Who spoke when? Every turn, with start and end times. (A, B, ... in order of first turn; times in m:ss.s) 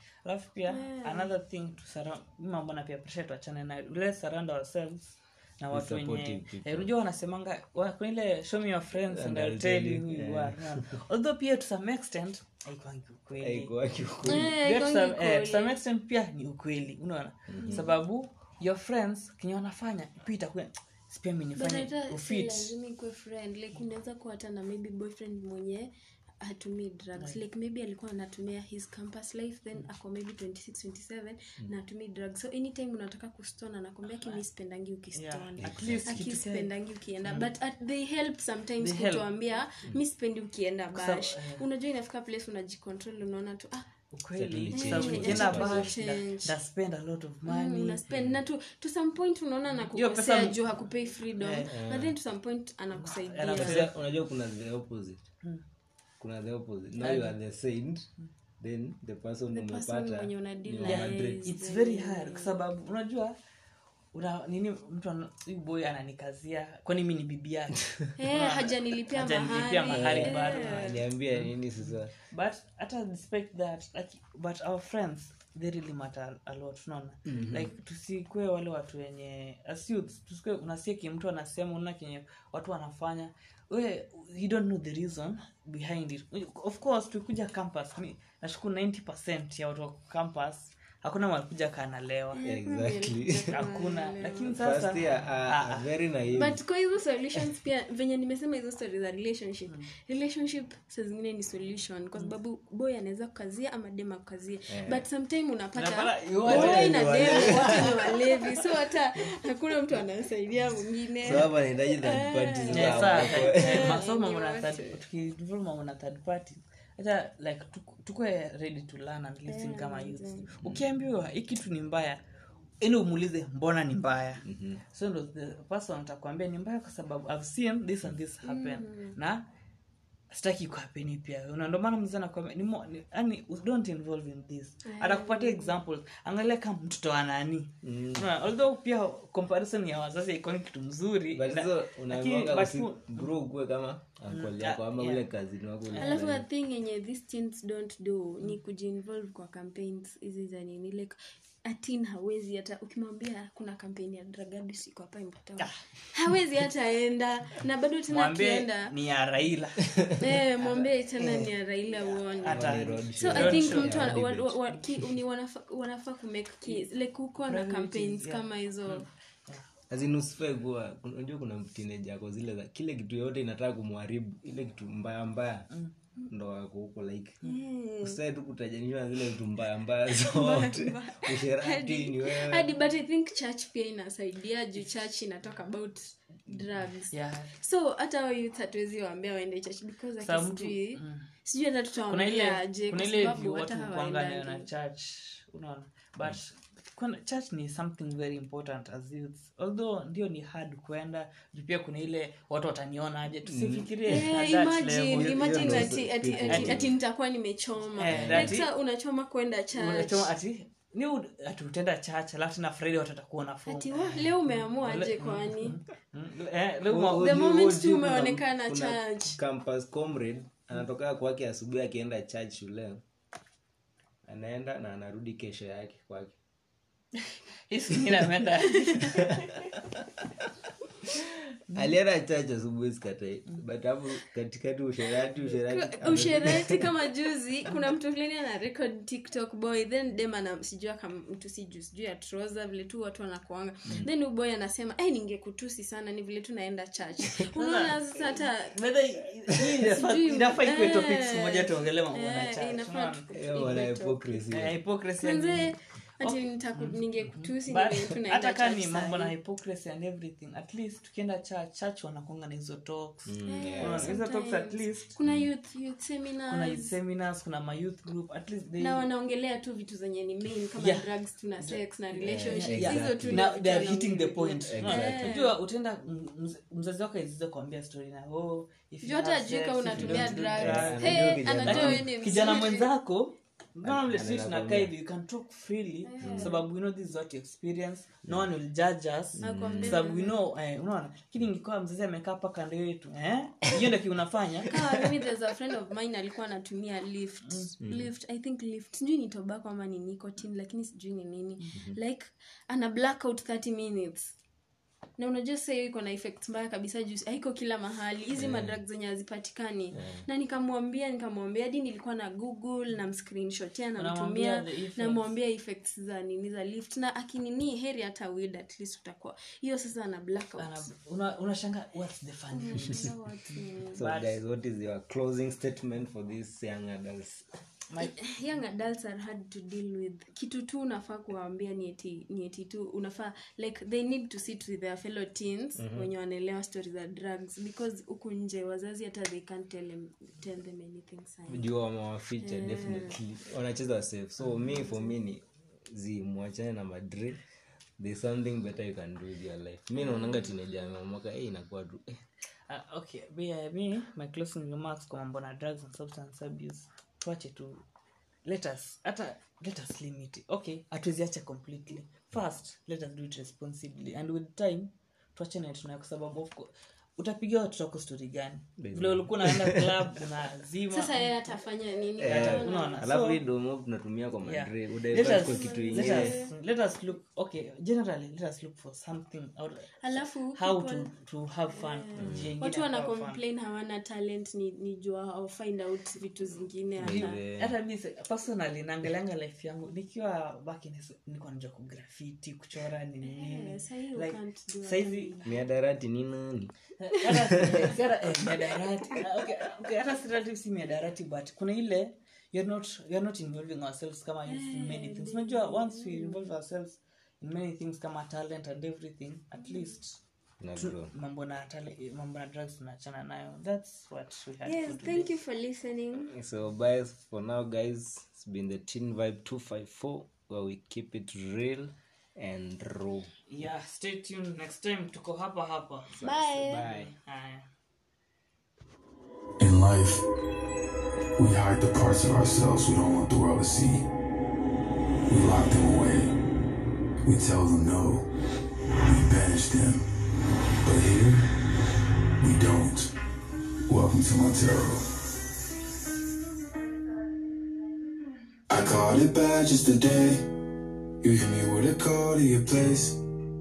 0:00.2-0:13.7 A
0:00.7-0:01.3 B
0:05.7-0:06.9 C
0:09.1-0:10.9 C
0:13.4-0:14.5 C
0:14.2-0:15.8 B
0:14.2-0:22.7 A
0:17.5-0:17.8 C
0:17.6-0:17.9 B
0:21.6-0:43.9 B
0:35.2-0:36.7 A
0:35.6-0:36.4 C
0:38.8-0:39.3 A
0:40.9-0:41.6 A
0:44.1-0:48.0 A
0:44.4-0:45.9 C
0:44.7-0:46.5 B
0:47.4-0:53.9 B
0:48.1-0:48.4 C
0:49.8-0:50.6 A
0:51.4-0:51.7 A
0:51.7-0:52.1 C
0:53.0-0:53.9 A
0:53.5-0:55.2 C
0:56.2-1:01.5 C
0:57.0-0:57.4 A
0:59.5-1:02.6 B
1:00.8-1:03.4 A
1:04.1-1:32.4 A
1:08.2-1:11.0 B
1:09.9-1:12.1 C
1:17.3-1:17.7 C
1:32.3-1:34.6 B
1:32.4-1:33.5 C
1:33.5-1:35.9 A
1:34.5-1:36.6 C
1:36.3-1:55.0 B
1:44.7-1:45.1 C
1:45.8-1:48.6 A
1:46.4-1:47.9 C
1:51.2-1:54.0 C
1:52.7-2:02.2 A
1:59.5-2:00.5 B
2:02.8-2:09.4 A
2:04.4-2:04.8 C
2:08.4-2:09.2 B
2:10.3-2:23.3 A
2:14.8-2:15.8 B
2:17.8-2:18.3 C
2:21.3-2:26.4 C
2:24.3-2:25.2 A
2:25.9-2:26.2 A
2:26.0-2:38.9 B
2:38.1-2:41.5 A
2:40.2-2:49.1 B
2:42.4-2:44.5 C
2:42.4-2:44.1 A
2:47.5-2:49.6 A
2:49.9-2:55.7 C
2:56.3-2:57.4 C
2:57.4-2:58.2 B
2:58.0-3:02.7 C
3:00.1-3:14.7 B
3:07.1-3:07.5 A
3:10.2-3:11.3 A
3:12.1-3:26.8 A
3:23.5-3:24.3 C
3:24.1-3:30.3 B
3:25.1-3:26.9 C
3:28.0-3:28.7 A
3:28.0-3:28.6 C
3:29.7-3:37.3 A
3:33.7-3:35.8 B
3:36.9-3:43.0 C
3:37.1-3:39.4 B
3:44.2-3:46.4 C
3:47.2-3:49.4 A
3:48.6-3:49.3 B
3:49.2-3:49.5 C
3:51.7-3:52.0 A
3:51.7-3:56.8 C
3:55.6-4:08.8 B
3:56.1-3:56.5 A
4:07.5-4:08.0 A
4:08.7-4:13.2 A
4:09.9-4:14.4 B
4:13.3-4:14.8 C
4:14.5-4:25.1 A
4:15.2-4:19.3 B
4:23.3-4:24.2 C
4:23.5-4:27.0 B
4:25.2-4:25.5 C
4:26.5-4:29.1 A
4:28.8-4:35.6 B
4:30.8-4:31.1 A
4:32.2-4:33.5 C
4:32.4-4:54.8 A
4:34.7-4:35.4 C
4:39.0-4:42.9 B
4:39.9-4:42.0 C
4:43.8-4:44.9 C
4:46.0-4:46.7 B
4:46.2-4:46.6 C
4:49.4-4:50.1 C
4:49.4-4:50.4 B
4:54.7-5:04.4 B
4:57.8-4:58.1 C
5:05.2-5:20.9 B
5:08.4-5:08.8 C
5:09.9-5:10.2 C
5:14.0-5:15.3 A
5:20.6-5:24.3 A
5:22.5-5:24.0 B
5:24.0-5:27.5 C
5:27.9-5:28.2 A
5:28.0-5:41.7 B
5:35.8-5:36.1 C
5:41.5-5:47.4 C
5:42.4-5:43.2 B
5:48.0-5:52.2 C
5:50.0-5:50.5 B
5:52.7-5:57.8 A
5:58.5-6:11.5 A
6:08.8-6:10.1 C
6:10.9-6:13.0 B
6:12.2-6:16.4 C
6:12.3-6:13.4 A
6:14.4-6:23.4 A
6:15.2-6:16.6 B
6:20.0-6:21.1 B
6:21.7-6:27.4 B
6:22.2-6:22.5 C
6:27.0-6:27.7 C
6:27.0-6:35.4 A
6:33.2-6:35.6 B
6:35.4-6:36.7 C
6:37.0-6:50.2 A
6:37.3-6:37.9 C
6:44.5-6:46.5 B
6:49.6-6:50.0 B
6:50.6-6:51.1 C
6:50.8-6:55.3 A
6:54.6-6:56.3 B
6:56.3-7:03.3 C
7:03.5-7:07.6 A
7:06.1-7:07.1 C
7:06.2-7:06.9 B
7:09.6-7:10.2 D
7:11.4-7:14.0 D
7:15.3-7:16.3 D
7:17.2-7:18.3 D
7:19.0-7:20.0 D
7:20.8-7:21.5 D
7:22.4-7:23.1 D
7:23.9-7:25.1 D
7:28.7-7:30.4 D
7:31.2-7:33.2 D